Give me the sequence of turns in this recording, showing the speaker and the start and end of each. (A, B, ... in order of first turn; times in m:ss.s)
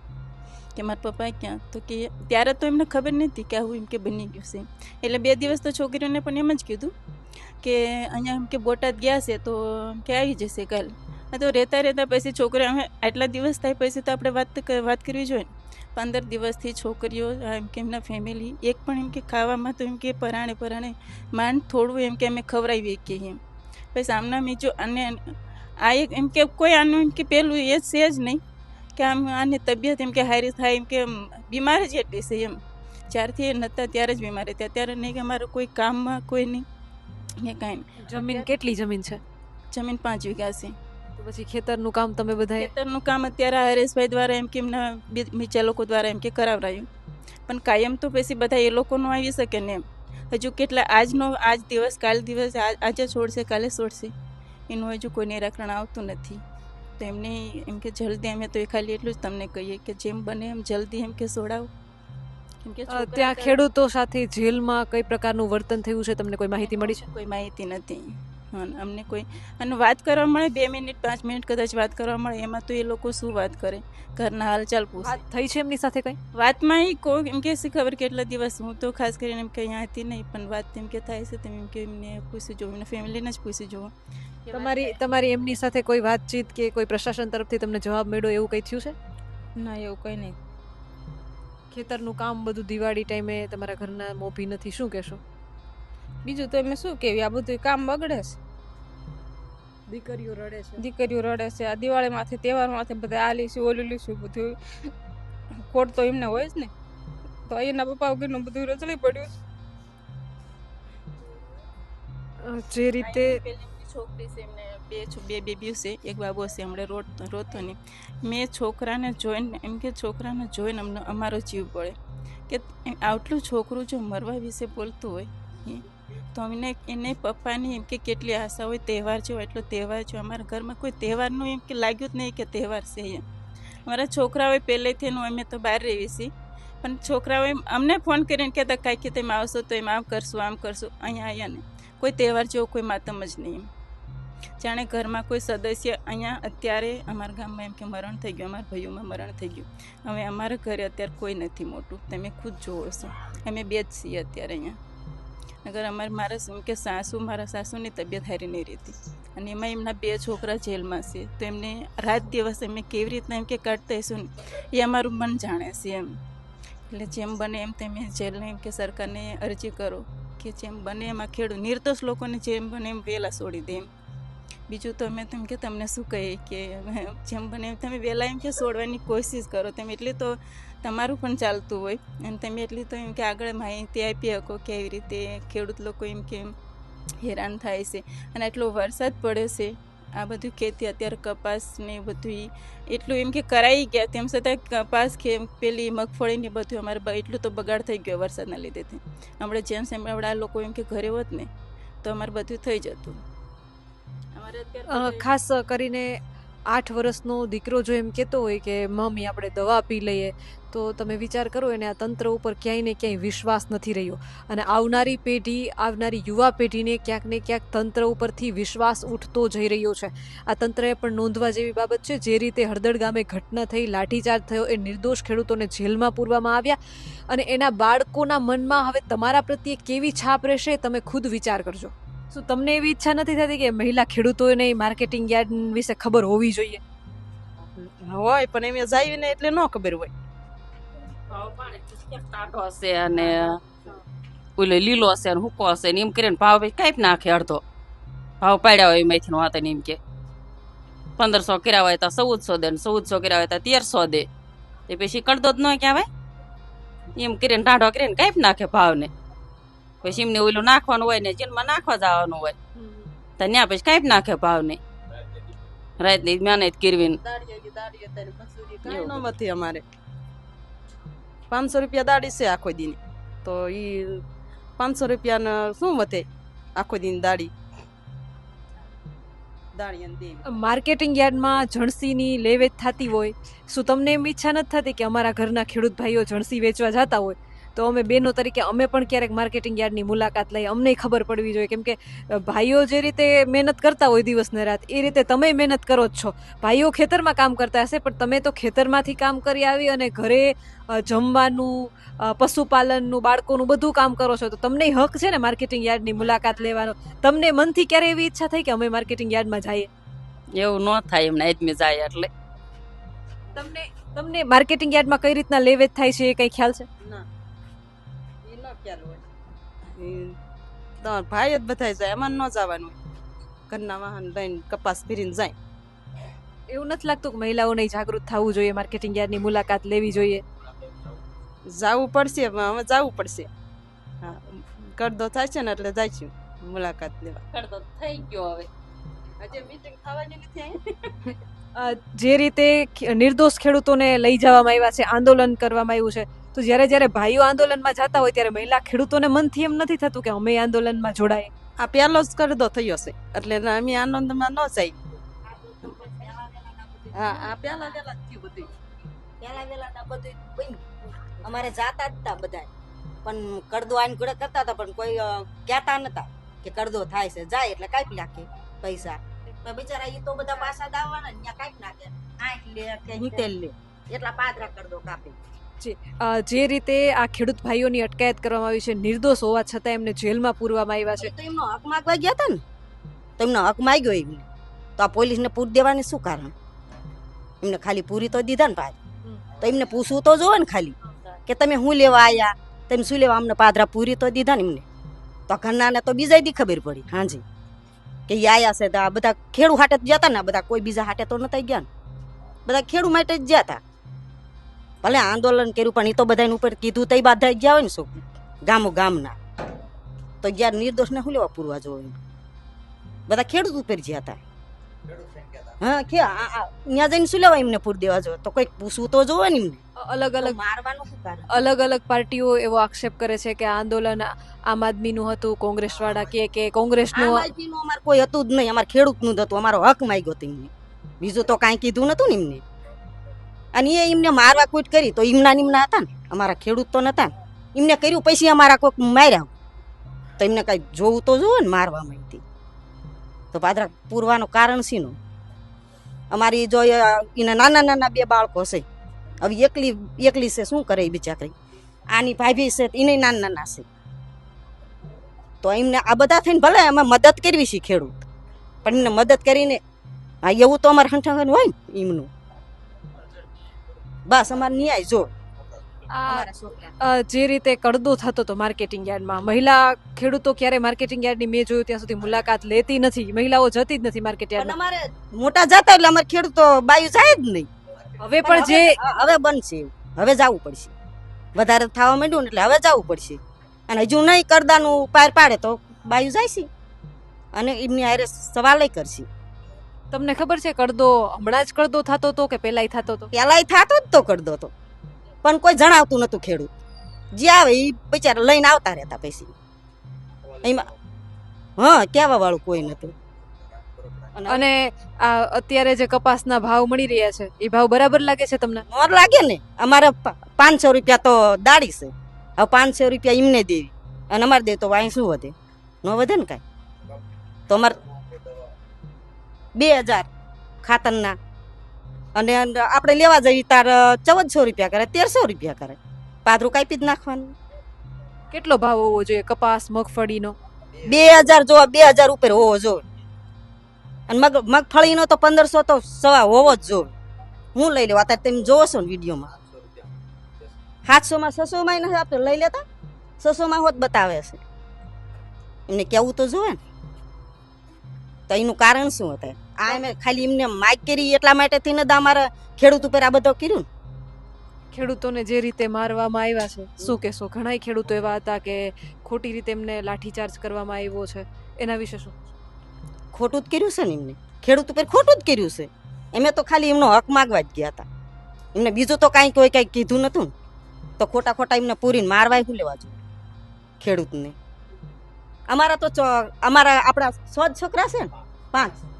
0:00.8-0:06.9 A
0:07.6-0:23.4 A
0:23.9-0:28.4 A
0:29.0-0:32.6 A
0:33.1-0:36.6 A
0:37.4-0:38.4 A
0:38.0-0:39.2 B
0:39.7-0:40.7 A
0:41.2-0:42.7 B
0:42.6-0:46.9 A
0:47.5-0:54.1 A
0:54.7-0:56.4 A
0:57.0-1:01.7 A
1:02.6-1:03.6 A
1:02.9-1:07.0 B
1:06.7-1:15.2 A
1:15.0-1:16.2 B
1:16.3-1:23.9 A
1:24.5-1:24.9 A
1:24.5-1:29.0 B
1:29.6-1:30.4 C
1:31.7-1:35.2 B
1:36.2-1:38.4 C
1:39.9-1:40.8 B
1:40.8-1:44.6 C
1:45.6-1:46.7 C
1:47.5-1:49.3 C
1:52.4-1:53.4 B
1:53.0-2:02.0 A
2:02.5-2:13.2 A
2:13.8-2:16.3 A
2:16.8-2:23.7 A
2:24.6-2:34.8 A
2:35.6-2:46.1 A
2:46.9-2:53.9 A
2:54.7-3:06.5 A
3:07.2-3:21.5 A
3:22.0-3:23.2 A
3:24.4-3:25.3 A
3:24.9-3:26.2 B
3:26.7-3:46.8 B
3:47.3-3:56.8 B
3:57.7-4:00.1 D
4:01.3-4:03.6 E
4:04.6-4:07.6 E
4:08.4-4:10.0 E
4:11.2-4:14.3 E
4:14.9-4:16.1 E
4:17.2-4:19.1 E
4:20.0-4:22.5 E
4:23.4-4:24.8 E
4:26.0-4:27.2 E
4:27.2-4:29.8 D
4:28.8-4:29.3 E
4:31.5-4:34.2 D
4:34.8-4:37.5 D
4:39.7-4:40.4 D
4:40.4-5:09.9 B
5:10.5-5:12.3 E
5:13.5-5:16.9 B
5:18.4-5:19.2 D
5:19.9-5:20.4 D
5:21.0-5:23.0 D
5:23.7-5:25.5 D
5:26.7-5:30.4 B
5:31.7-5:33.5 D
5:34.2-5:37.4 D
5:37.5-5:38.7 E
5:39.4-5:40.8 D
5:41.8-5:51.5 B
5:51.8-5:55.0 D
5:55.6-5:57.6 F
5:57.1-5:58.7 D
5:59.4-6:00.8 F
6:01.4-6:02.7 F
6:03.2-6:15.4 F
6:15.8-6:21.3 B
6:21.2-6:22.6 F
6:23.4-6:24.4 F
6:25.0-6:26.5 F
6:27.6-6:29.0 F
6:29.6-6:30.9 F
6:31.5-6:34.8 F
6:35.5-6:37.4 F
6:38.3-6:41.9 F
6:42.6-6:43.8 F
6:45.0-6:49.4 F
6:50.4-6:52.2 F
6:53.3-6:54.4 F
6:55.8-6:59.8 F
7:00.0-7:00.6 B
7:00.4-7:01.6 F
7:01.5-7:07.5 B
7:07.1-7:12.6 F
7:13.7-7:19.5 F
7:20.4-7:22.4 F
7:23.5-7:25.2 F
7:26.3-7:28.8 F
7:29.4-7:31.5 F
7:32.1-7:33.8 F
7:35.6-7:38.2 F
7:38.8-7:39.8 F
7:40.4-7:42.3 F
7:44.3-7:45.3 F
7:46.1-7:46.5 B
7:46.3-7:46.9 F
7:47.0-7:54.7 B
7:54.6-7:57.7 F
7:58.2-7:59.0 B
7:58.4-8:00.9 F
8:01.6-8:06.7 F
8:07.5-8:09.3 F
8:10.1-8:13.3 B
8:13.3-8:14.7 F
8:15.4-8:16.7 F
8:17.3-8:19.5 F
8:20.6-8:20.9 F
8:21.8-8:23.1 F
8:24.3-8:24.7 F
8:24.5-8:28.8 B
8:28.9-8:36.6 F
8:37.7-8:38.0 F
8:39.8-8:40.3 F
8:40.8-8:41.4 F
8:42.4-8:47.5 F
8:48.5-8:50.5 B
8:51.0-8:53.0 F
8:54.3-8:57.1 F
8:57.7-8:59.5 F
9:01.1-9:02.8 F
9:03.4-9:04.6 F
9:05.9-9:06.8 F
9:08.5-9:13.9 F
9:14.9-9:22.3 B
9:23.3-9:28.0 F
9:28.8-9:30.5 F
9:31.2-9:33.2 F
9:34.0-9:34.5 F
9:35.7-9:39.0 F